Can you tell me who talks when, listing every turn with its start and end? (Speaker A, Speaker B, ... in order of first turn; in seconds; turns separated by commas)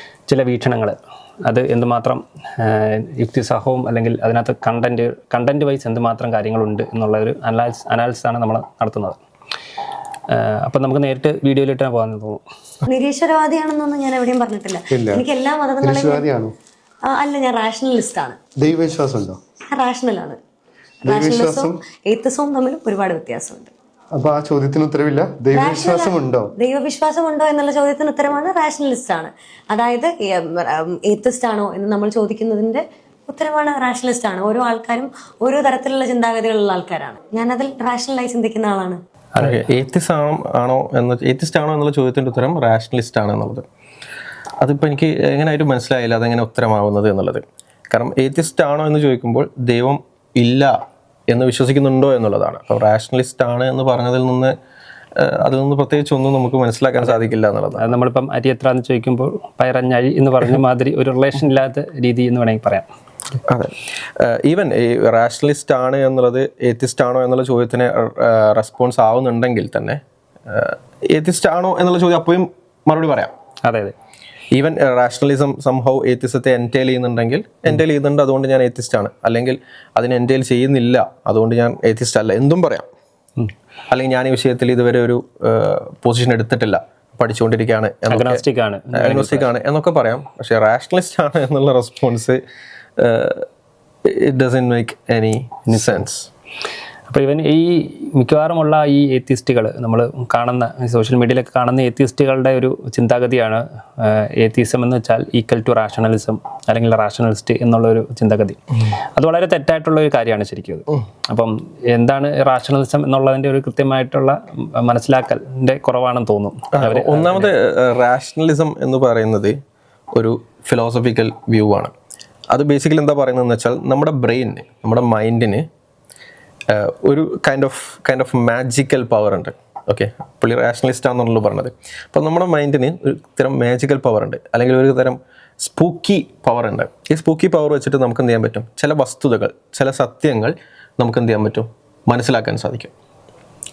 Speaker A: 0.3-9.2, Speaker A: 10.3-12.4, Speaker B: 12.9-16.3, Speaker C: 14.9-15.2, Speaker C: 15.8-16.5, Speaker B: 17.1-18.4, Speaker C: 18.6-19.4, Speaker B: 19.7-20.4, Speaker C: 21.1-21.8, Speaker B: 21.1-23.7, Speaker C: 24.1-26.5, Speaker B: 25.5-39.0, Speaker A: 39.4-39.6, Speaker D: 39.4-43.6, Speaker D: 44.6-50.8, Speaker D: 51.3-54.5, Speaker D: 55.2-57.9, Speaker A: 57.8-62.9, Speaker D: 63.5-73.3, Speaker A: 73.7-74.0, Speaker D: 74.5-82.9, Speaker D: 83.9-88.4, Speaker A: 88.1-89.5, Speaker D: 89.0-92.4, Speaker D: 93.0-93.5, Speaker D: 94.0-96.3, Speaker A: 95.7-96.0, Speaker A: 97.1-117.5, Speaker D: 116.8-119.5, Speaker D: 120.2-121.9, Speaker D: 122.5-125.7, Speaker D: 126.7-142.9